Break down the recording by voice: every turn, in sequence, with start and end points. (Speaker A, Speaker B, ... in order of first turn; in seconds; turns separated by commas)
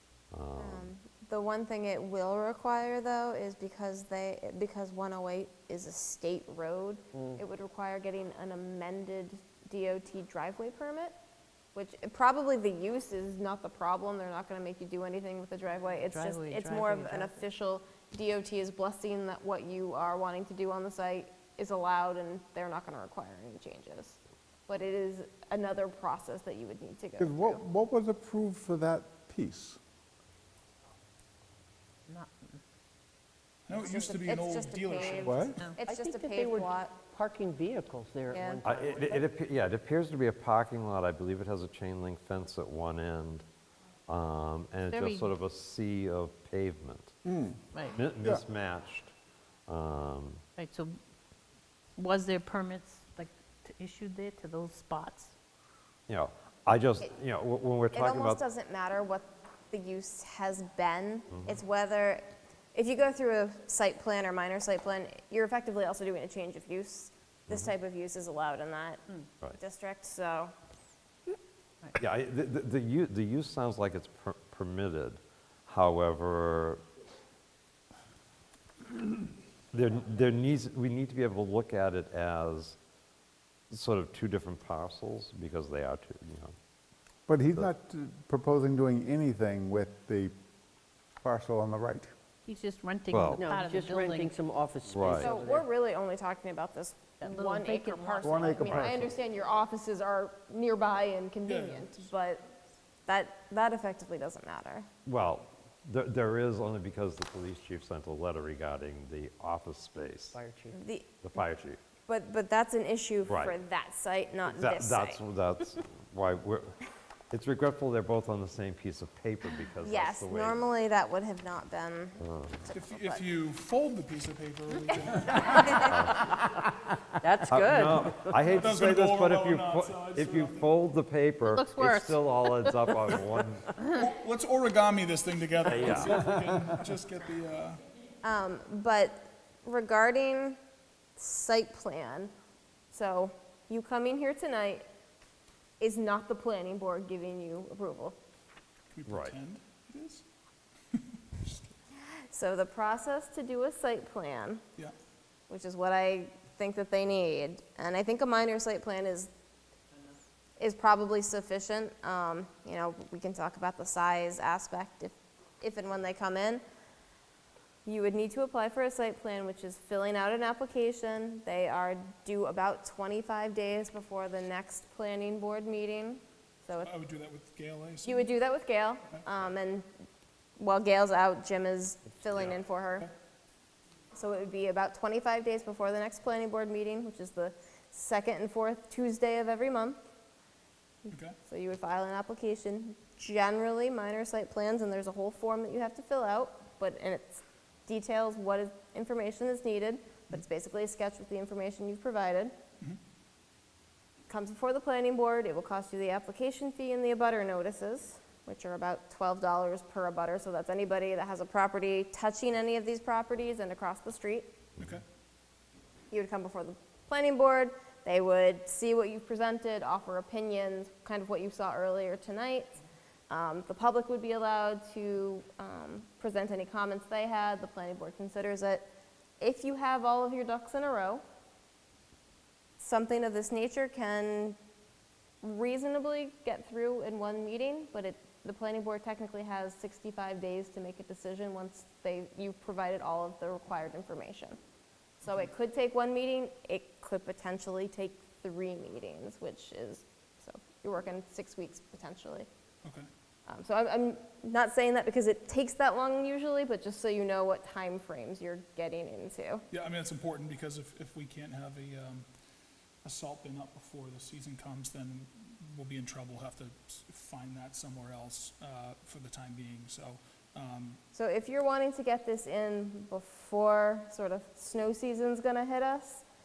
Speaker A: 0.3-0.9, Speaker B: 0.6-11.1, Speaker B: 11.7-24.2, Speaker C: 16.1-17.3, Speaker B: 24.7-27.6, Speaker D: 27.2-29.8, Speaker C: 32.1-32.6, Speaker E: 33.7-35.6, Speaker B: 33.7-36.9, Speaker D: 35.2-35.6, Speaker F: 35.8-39.2, Speaker B: 38.3-38.6, Speaker A: 38.6-43.4, Speaker A: 44.1-47.1, Speaker C: 44.9-45.3, Speaker D: 47.2-47.6, Speaker C: 47.7-48.0, Speaker A: 47.9-49.1, Speaker A: 49.7-50.4, Speaker C: 50.6-51.0, Speaker C: 52.0-55.3, Speaker A: 56.1-58.4, Speaker B: 57.9-70.5, Speaker A: 61.3-61.6, Speaker A: 71.9-76.8, Speaker A: 79.7-82.8, Speaker A: 83.7-86.5, Speaker D: 87.3-90.3, Speaker D: 91.2-92.1, Speaker C: 92.5-94.3, Speaker A: 93.1-93.5, Speaker F: 93.3-95.7, Speaker A: 94.9-95.3, Speaker B: 95.1-102.4, Speaker C: 97.2-98.9, Speaker D: 98.2-99.1, Speaker E: 101.5-102.1, Speaker B: 103.1-104.9, Speaker A: 105.0-110.4, Speaker F: 110.3-110.8, Speaker B: 110.7-111.4, Speaker A: 111.2-111.8, Speaker B: 112.0-115.2, Speaker A: 113.3-113.5, Speaker A: 114.5-116.8, Speaker A: 117.3-120.6, Speaker B: 119.8-123.2, Speaker A: 122.2-122.5, Speaker E: 122.7-125.9, Speaker A: 125.8-126.3, Speaker F: 127.2-128.4, Speaker A: 127.5-133.7, Speaker E: 128.5-130.7, Speaker C: 131.4-133.2, Speaker E: 133.8-137.8, Speaker A: 135.7-136.3, Speaker B: 138.2-140.6, Speaker B: 141.2-142.3, Speaker B: 142.9-144.8, Speaker B: 145.8-148.2, Speaker E: 148.9-150.2, Speaker A: 149.1-149.3, Speaker E: 150.9-151.7, Speaker B: 152.0-154.6, Speaker B: 155.5-159.3, Speaker B: 160.6-166.6, Speaker B: 167.8-176.9, Speaker E: 176.8-178.2, Speaker B: 178.0-179.8, Speaker B: 180.6-183.1, Speaker E: 182.3-183.1, Speaker B: 184.1-190.0, Speaker B: 191.0-202.5, Speaker E: 191.1-191.3, Speaker B: 204.3-214.5, Speaker E: 214.8-215.0, Speaker B: 216.1-222.7, Speaker B: 223.3-231.2, Speaker B: 232.8-234.6, Speaker B: 235.4-244.6, Speaker B: 245.2-252.5, Speaker B: 253.5-259.6, Speaker E: 259.7-262.2, Speaker E: 263.0-271.0, Speaker B: 271.1-276.2